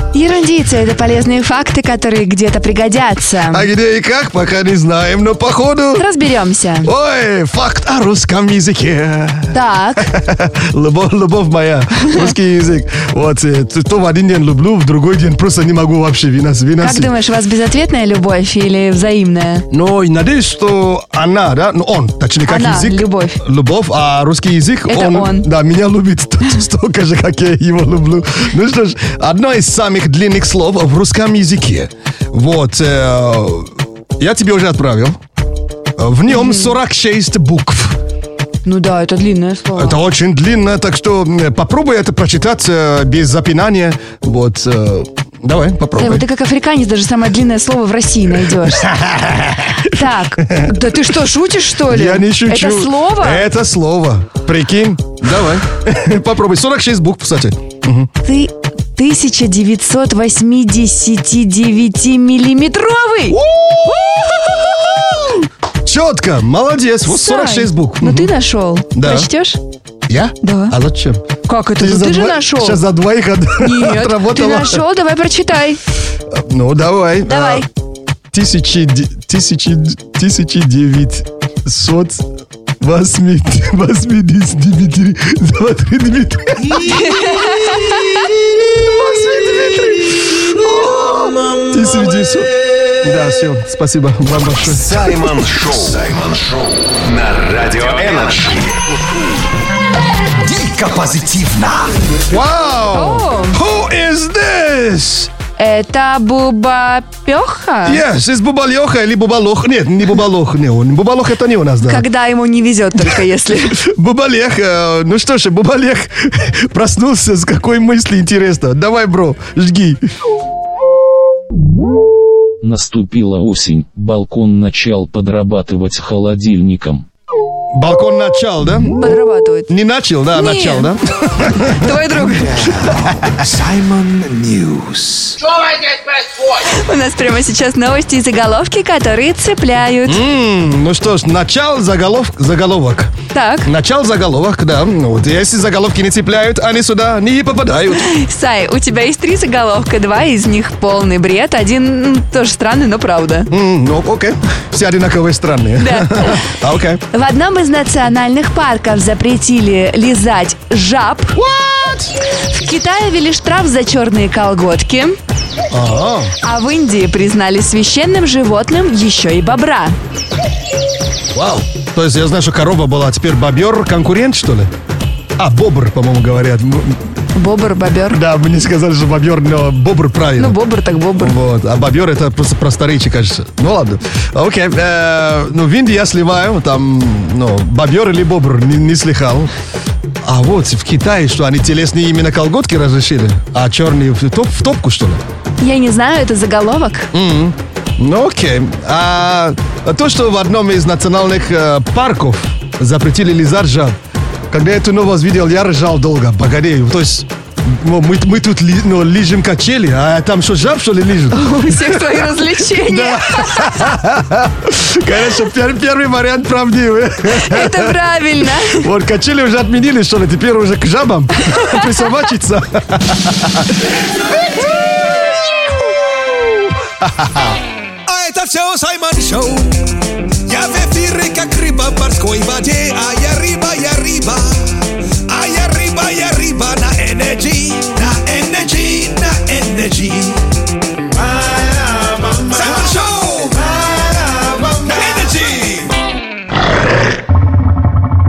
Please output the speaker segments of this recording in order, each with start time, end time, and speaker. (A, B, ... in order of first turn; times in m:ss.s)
0:00.1-0:03.7 A
0:03.5-0:06.1 B
0:06.0-0:06.9 A
0:06.8-0:17.1 B
0:09.5-0:10.1 A
0:16.8-0:19.6 A
0:19.7-0:35.2 B
0:22.4-0:23.4 A
0:24.9-0:25.5 A
0:36.0-0:38.0 B
0:36.3-0:36.8 A
0:38.6-0:40.0 A
0:39.7-0:46.2 B
0:46.0-0:48.9 A
0:48.6-0:50.8 B
0:49.8-0:53.4 A
0:51.8-0:58.1 B
0:58.2-1:03.4 A
1:03.3-1:08.3 B
1:07.0-1:09.6 A
1:08.9-1:09.3 B
1:10.1-1:11.2 B
1:10.4-1:10.8 A
1:11.4-1:12.8 A
1:11.8-1:14.8 B
1:13.6-1:15.8 A
1:16.3-1:17.7 B
1:17.3-1:17.7 A
1:18.3-1:22.2 B
1:22.8-1:27.0 B
1:26.9-1:28.2 A
1:28.7-1:30.6 B
1:30.8-1:31.3 C
1:31.7-1:32.5 B
1:33.0-1:35.1 B
1:34.7-1:38.8 D
1:40.4-1:41.9 C
1:42.3-1:45.3 B
1:42.9-1:43.6 A
1:45.6-1:48.0 A
1:47.8-1:52.0 B
1:51.8-1:53.8 A
1:53.1-2:00.0 B
2:02.6-2:07.0 E
2:07.7-2:09.1 B
2:09.0-2:09.7 A
2:09.7-2:12.1 B
2:10.3-2:10.9 A
2:11.5-2:12.5 A
2:12.2-2:15.4 C
2:12.8-2:13.3 B
2:16.6-2:20.2 A
2:20.0-2:28.1 B
2:23.3-2:23.7 A
2:27.9-2:33.5 A
2:33.5-2:37.0 B
2:35.8-2:36.5 A
2:37.1-2:41.4 A
2:41.3-2:42.1 B
2:42.4-2:45.2 A
2:45.7-2:46.3 B
2:46.4-2:50.0 A
2:51.3-2:54.7 B
2:55.4-2:57.0 B
2:57.3-2:58.2 A
2:58.1-3:00.6 B
3:00.4-3:01.4 A
3:01.2-3:09.5 B
3:10.2-3:15.2 B
3:15.6-3:17.1 A
3:17.1-3:24.0 B
3:24.5-3:47.6 B
3:31.3-3:33.9 A
3:37.3-3:38.8 A
3:41.4-3:41.9 A
3:48.1-3:49.8 C
3:50.5-3:54.7 C
3:55.3-4:00.4 C
4:01.2-4:05.9 C